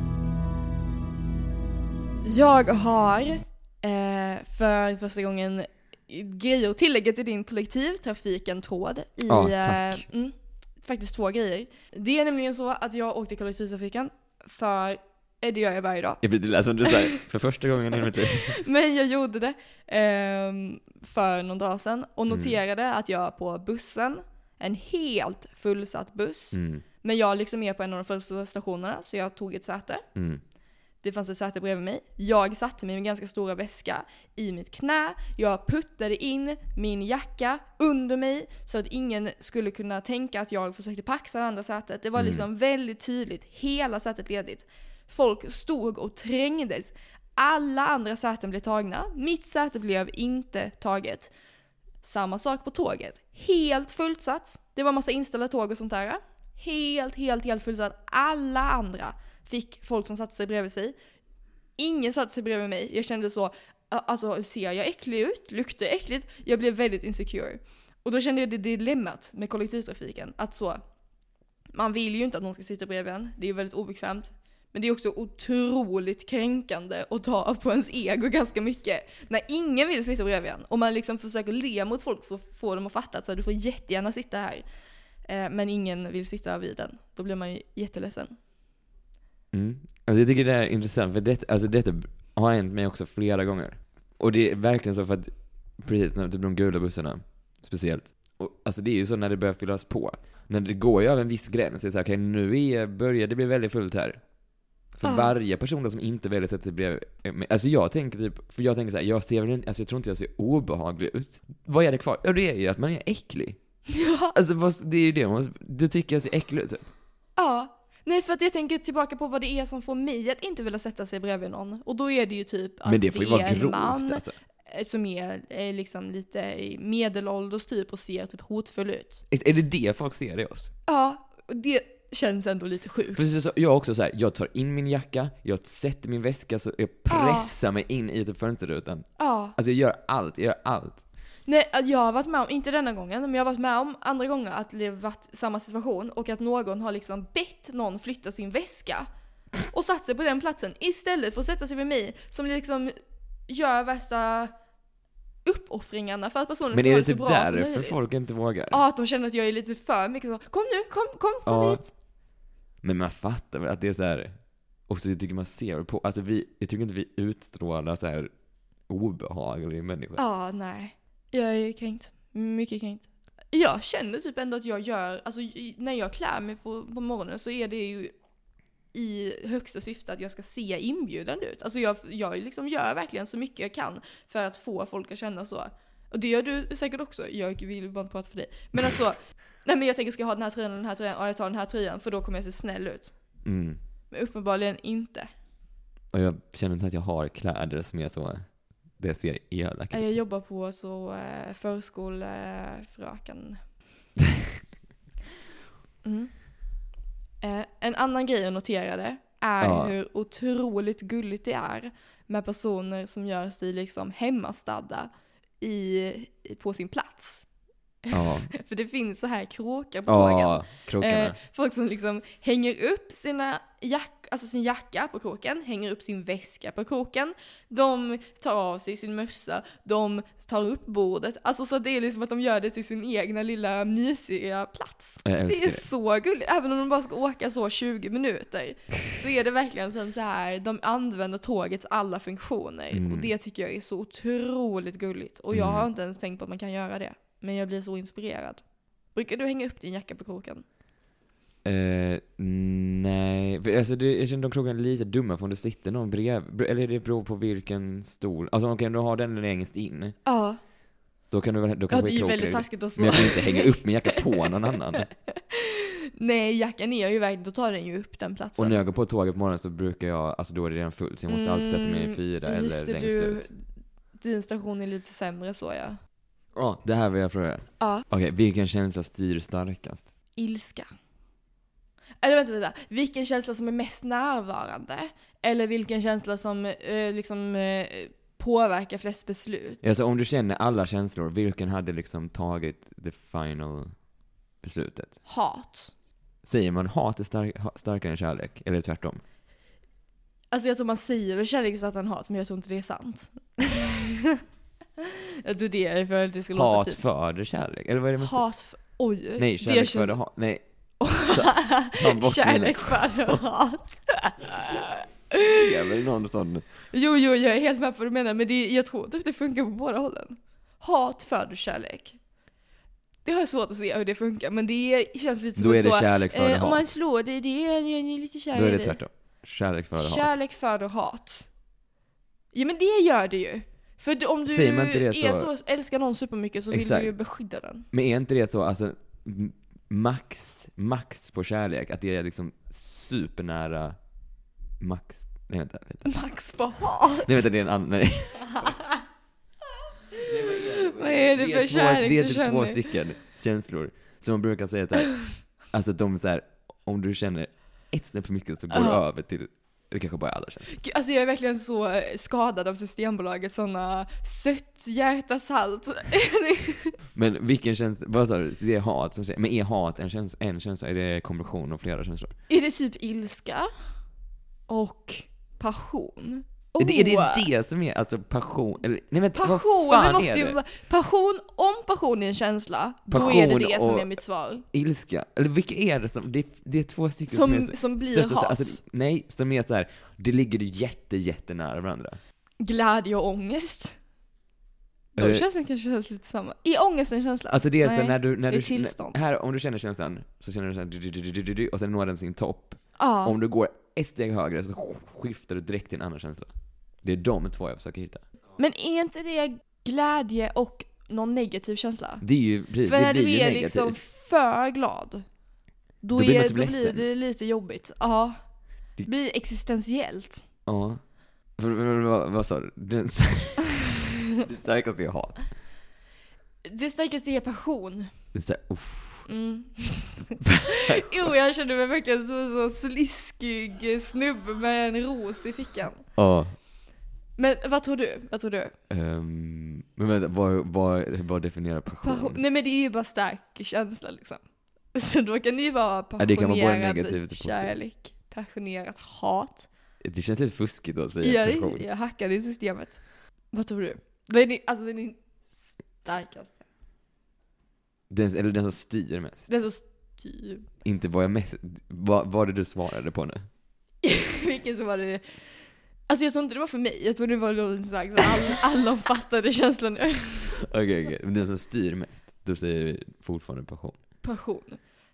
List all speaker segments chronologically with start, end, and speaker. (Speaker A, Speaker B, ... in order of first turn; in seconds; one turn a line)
Speaker A: 2.2-16.2
Speaker B: 9.3-10.0
Speaker B: 16.2-18.6
Speaker A: 16.8-17.2
Speaker A: 18.2-30.0
Speaker B: 22.3-22.6
Speaker B: 26.5-26.8
Speaker B: 30.1-30.4
Speaker A: 31.0-51.3
Speaker B: 42.1-42.4
Speaker A: 52.0-60.9
Speaker A: 61.8-70.8
Speaker A: 71.7-84.6
Speaker A: 85.3-88.3
Speaker B: 89.5-104.2
Speaker B: 105.0-113.6
Speaker A: 105.0-105.3
Speaker A: 113.9-114.3
Speaker B: 114.3-116.8
Speaker A: 117.4-129.2
Speaker B: 122.8-124.3
Speaker B: 129.3-130.7
Speaker A: 130.9-133.2
Speaker B: 133.1-141.0
Speaker A: 137.1-137.5
Speaker A: 139.2-139.6
Speaker A: 141.4-149.1
Speaker A: 149.7-152.9
Speaker A: 153.5-154.5
Speaker A: 155.4-158.0
Speaker B: 156.7-158.8
Speaker A: 158.7-161.9
Speaker B: 161.4-161.8
Speaker B: 162.8-164.3
Speaker B: 164.9-168.3
Speaker B: 168.9-170.2
Speaker A: 170.2-178.1
Speaker A: 178.9-193.1
Speaker B: 193.4-193.8
Speaker A: 194.1-195.3
Speaker B: 196.1-198.5
Speaker B: 199.0-200.2
Speaker A: 199.9-203.6
Speaker A: 206.0-206.3
Speaker A: 207.4-215.1
Speaker B: 209.6-209.9
Speaker A: 215.6-217.4
Speaker A: 218.0-248.6
Speaker B: 218.1-218.5
Speaker B: 220.1-221.3
Speaker B: 235.2-235.8
Speaker B: 242.9-243.3
Speaker B: 245.5-245.9
Speaker A: 249.1-250.6
Speaker B: 251.6-260.1
Speaker A: 260.2-260.6
Speaker B: 261.3-265.1
Speaker A: 261.9-264.2
Speaker A: 265.3-268.8
Speaker B: 268.6-273.5
Speaker A: 271.3-273.6
Speaker A: 274.1-276.0
Speaker B: 276.5-280.1
Speaker A: 280.4-280.9
Speaker A: 282.2-289.9
Speaker B: 289.8-293.9
Speaker B: 294.6-295.2
Speaker A: 295.3-295.9
Speaker B: 296.4-299.2
Speaker A: 300.5-304.4
Speaker A: 305.0-307.0
Speaker B: 306.5-308.4
Speaker A: 308.2-310.2
Speaker B: 309.4-310.6
Speaker A: 311.0-315.7
Speaker B: 311.2-313.4
Speaker B: 315.4-316.6
Speaker A: 316.9-322.2
Speaker A: 323.2-329.0
Speaker B: 325.6-326.8
Speaker B: 328.5-330.3
Speaker A: 329.9-331.5
Speaker A: 332.5-337.9
Speaker B: 334.4-335.5
Speaker B: 336.7-337.1
Speaker B: 337.9-343.9
Speaker B: 344.8-346.1
Speaker A: 346.0-347.4
Speaker B: 347.2-348.7
Speaker A: 348.5-349.0
Speaker A: 350.1-352.9
Speaker B: 350.2-360.8
Speaker A: 358.7-359.0
Speaker A: 360.7-366.9
Speaker B: 367.1-372.3
Speaker A: 372.5-373.7
Speaker A: 374.7-377.5
Speaker B: 376.8-380.6
Speaker A: 379.3-384.6
Speaker B: 383.1-384.1
Speaker B: 384.7-392.2
Speaker A: 387.3-388.8
Speaker A: 392.6-393.9
Speaker A: 395.1-399.1
Speaker B: 395.2-395.4
Speaker B: 397.5-406.5
Speaker A: 403.0-403.4
Speaker B: 407.0-408.2
Speaker A: 408.6-412.2
Speaker B: 412.2-414.0
Speaker A: 412.8-415.2
Speaker A: 416.0-418.4
Speaker B: 416.1-417.0
Speaker A: 419.0-420.4
Speaker B: 420.6-421.0
Speaker B: 421.6-423.8
Speaker B: 424.4-425.4
Speaker A: 426.6-428.1
Speaker B: 428.3-429.3
Speaker A: 429.3-436.0
Speaker B: 430.4-431.0
Speaker B: 436.1-436.5
Speaker A: 437.4-438.7
Speaker B: 438.9-442.4
Speaker A: 442.0-444.4
Speaker A: 444.9-449.7
Speaker B: 446.2-447.7
Speaker B: 450.0-451.9
Speaker A: 451.2-453.0
Speaker A: 453.5-455.2
Speaker A: 456.0-456.6
Speaker B: 458.1-459.5
Speaker A: 459.5-460.7
Speaker B: 460.8-463.4
Speaker A: 464.0-465.2
Speaker A: 466.1-470.6
Speaker B: 470.6-473.9
Speaker A: 474.2-474.8